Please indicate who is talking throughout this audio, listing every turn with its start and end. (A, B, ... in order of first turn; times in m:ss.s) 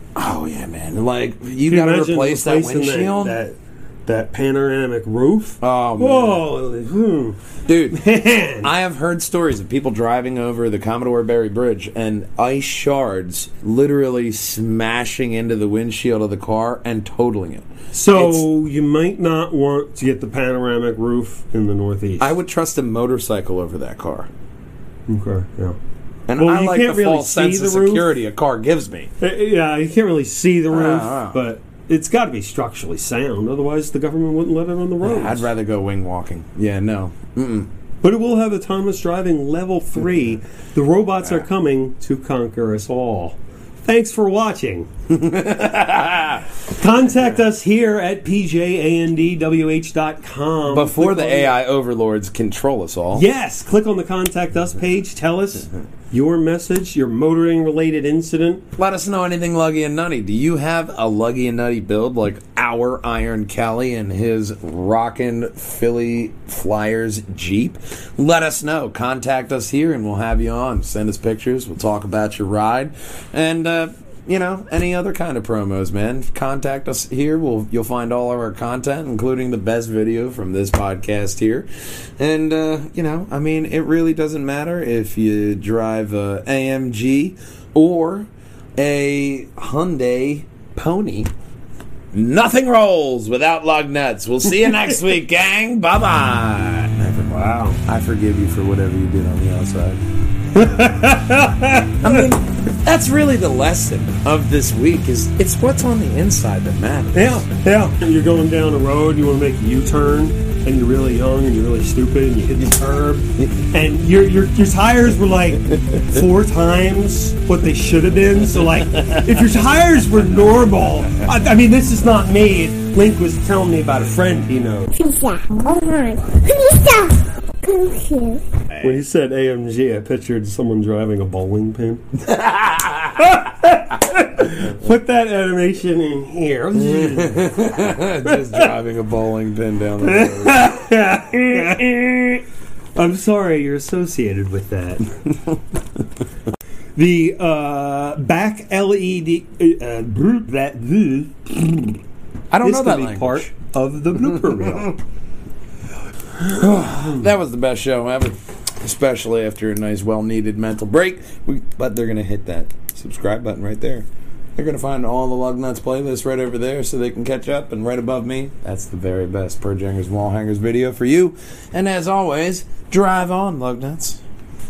0:00.2-0:03.4 A
0:01.7-0:07.4 B
0:05.6-0:06.4 A
0:07.7-0:08.0 A
0:07.9-0:08.7 B
0:08.6-0:18.4 A
0:17.9-0:22.3 B
0:22.2-0:24.3 A
0:25.1-0:25.8 B
0:26.3-0:29.1 A
0:26.4-0:28.0 B
0:29.2-0:35.5 B
0:30.7-0:31.4 A
0:35.0-0:37.7 A
0:38.0-0:44.9 B
0:45.1-0:46.4 A
0:46.7-0:51.6 B
0:50.7-0:53.2 A
0:53.1-0:58.6 B
0:58.8-1:21.7 A
1:22.2-1:31.3 A
1:32.1-1:40.0 A
1:37.2-1:37.8 B
1:40.5-1:42.3 B
1:42.0-1:47.4 A
1:47.1-2:04.9 B
1:59.0-1:59.4 A
2:04.9-2:08.4 C
2:08.7-2:09.0 A
2:08.8-2:12.0 B
2:12.2-2:13.3 A
2:13.1-2:17.6 B
2:16.8-2:20.6 A
2:18.2-2:18.7 B
2:20.0-2:22.4 B
2:22.9-2:25.1 B
2:26.9-2:32.0 B
2:32.5-2:33.5 A
2:32.6-2:35.0 B
2:36.4-2:54.2 A